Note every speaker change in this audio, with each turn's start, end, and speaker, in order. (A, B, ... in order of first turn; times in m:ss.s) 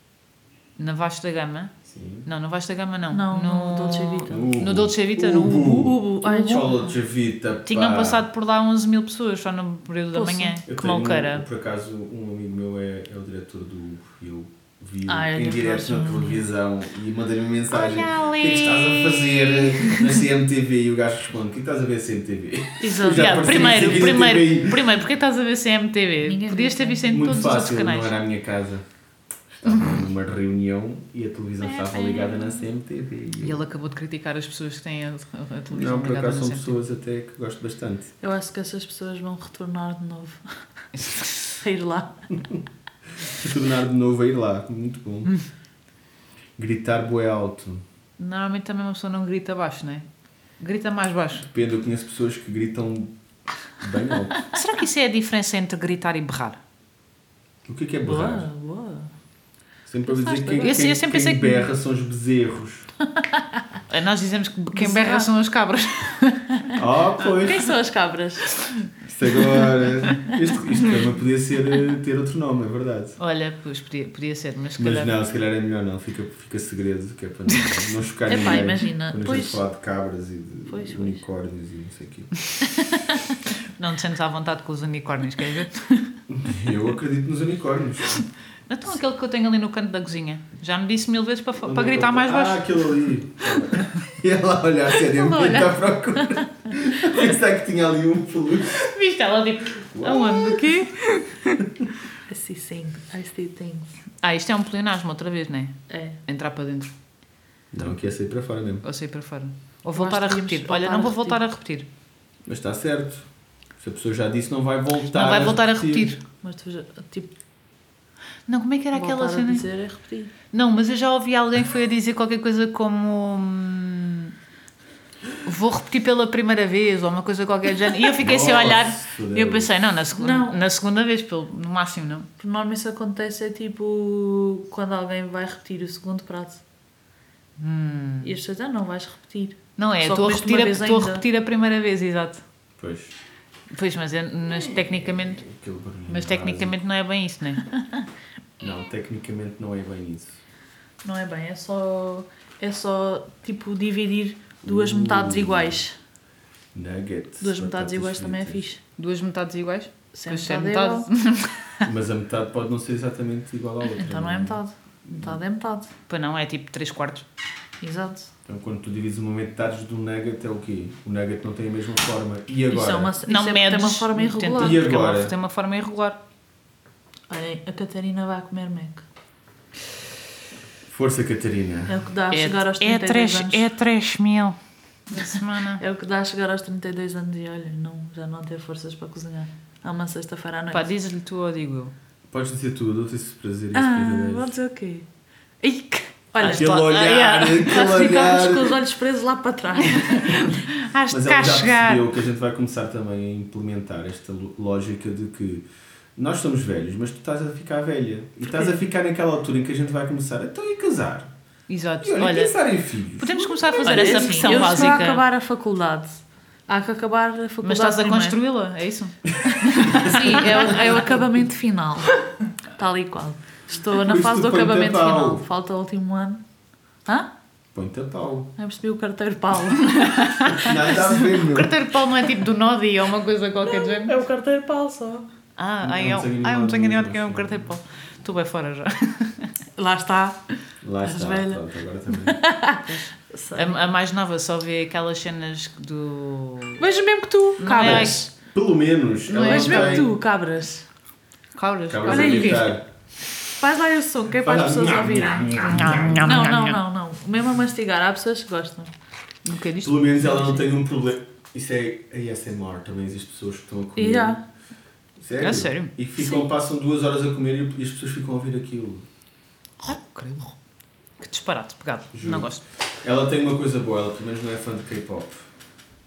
0:00.8-0:01.7 A
0:01.9-0:02.3 B
0:02.3-0:05.9 A
0:03.1-0:04.5 C
0:04.3-0:08.3 B
0:05.6-0:06.9 C
0:07.7-0:11.4 A
0:10.1-0:10.6 C
0:10.6-0:24.9 B
0:15.1-0:16.4 C
0:17.7-0:20.2 A
0:22.8-0:24.2 C
0:23.1-0:28.1 A
0:26.2-0:27.4 C
0:27.1-0:28.8 B
0:29.6-0:33.6 B
0:29.6-0:30.0 A
0:31.6-0:32.6 C
0:33.4-0:36.8 A
0:35.7-0:38.1 B
0:38.2-0:40.4 C
0:41.0-0:41.4 A
0:41.6-0:42.2 C
0:43.2-0:45.3 B
0:46.6-0:47.8 B
0:48.2-0:50.1 A
0:50.6-0:51.5 A
0:51.4-0:53.1 B
0:53.8-0:54.4 B
0:54.5-0:56.6 A
0:57.6-0:58.4 B
0:58.0-0:59.1 C
0:59.9-1:02.9 B
1:00.1-1:00.8 C
1:00.6-1:01.7 A
1:03.2-1:03.6 C
1:03.9-1:06.7 A
1:04.8-1:05.3 C
1:06.8-1:07.7 B
1:07.4-1:08.5 C
1:09.1-1:13.2 B
1:13.2-1:15.1 A
1:14.8-1:22.3 B
1:18.3-1:19.6 C
1:20.7-1:21.2 C
1:22.6-1:23.4 C
1:23.8-1:26.1 A
1:26.3-1:28.2 B
1:28.7-1:32.7 A
1:31.6-1:38.9 B
1:35.3-1:35.7 C
1:38.8-1:41.6 A
1:39.9-1:40.7 B
1:42.3-1:44.0 C
1:44.2-1:46.9 A
1:45.9-1:46.2 C
1:47.7-1:48.8 B
1:48.8-1:51.9 A
1:49.9-1:51.4 C
1:52.5-1:53.3 B
1:53.8-1:56.1 B
1:55.1-1:56.2 A
1:56.4-1:57.3 C
1:58.5-1:59.6 A
1:58.9-2:00.3 C
2:00.5-2:04.3 A
2:05.4-2:12.3 A
2:08.2-2:09.7 B
2:10.1-2:10.6 C
2:12.4-2:16.6 C
2:17.6-2:18.3 A
2:18.2-2:21.2 C
2:19.8-2:22.4 A
2:22.8-2:23.1 B
2:23.7-2:25.4 A
2:24.5-2:26.8 B
2:26.1-2:27.7 A
2:28.6-2:30.4 B
2:31.0-2:36.0 C
2:34.6-2:35.8 B
2:36.7-2:38.6 B
2:37.4-2:38.8 C
2:39.0-2:41.9 A
2:40.1-2:41.1 C
2:41.8-2:44.6 B
2:43.9-2:45.9 C
2:46.1-2:47.2 A
2:47.8-2:48.3 C
2:48.4-2:53.1 B
2:52.7-2:54.8 C
2:53.3-2:56.2 A
2:54.6-2:55.3 B
2:57.3-2:59.1 C
3:00.9-3:02.0 B
3:01.9-3:03.7 C
3:02.3-3:04.6 A
3:05.1-3:05.8 A
3:05.8-3:10.9 C
3:10.7-3:11.9 A
3:12.3-3:14.5 B
3:13.7-3:15.1 C
3:15.6-3:16.9 C
3:16.4-3:18.2 A
3:16.4-3:18.8 B
3:17.6-3:20.5 C
3:19.9-3:22.0 A
3:21.1-3:31.3 B
3:31.7-3:32.6 A
3:32.0-3:34.7 B
3:33.2-3:35.2 A
3:33.7-3:38.4 C
3:37.6-3:40.7 A
3:39.6-3:40.8 B
3:39.8-3:42.2 C
3:42.8-3:46.4 C
3:43.9-3:45.4 B
3:47.7-3:48.5 B
3:48.6-3:51.0 C
3:50.0-3:54.2 A
3:50.5-3:51.8 B
3:53.6-3:55.3 C
3:55.6-3:59.5 A
3:55.8-3:57.6 B
3:59.8-4:00.4 C
4:00.8-4:02.4 B
4:01.0-4:03.8 C
4:02.9-4:06.8 A
4:06.8-4:08.3 C
4:07.6-4:08.3 A
4:07.8-4:10.1 B
4:09.3-4:10.9 C
4:09.3-4:10.1 A
4:11.6-4:12.8 A
4:11.9-4:12.8 B
4:12.1-4:12.7 C
4:13.5-4:18.9 C
4:14.4-4:16.4 B
4:15.6-4:16.8 A
4:19.4-4:20.6 A
4:19.8-4:24.4 B
4:24.0-4:24.4 C
4:25.2-4:29.1 B
4:25.4-4:25.9 A
4:29.8-4:30.5 A
4:31.2-4:32.6 A
4:32.1-4:32.5 B
4:33.0-4:35.4 B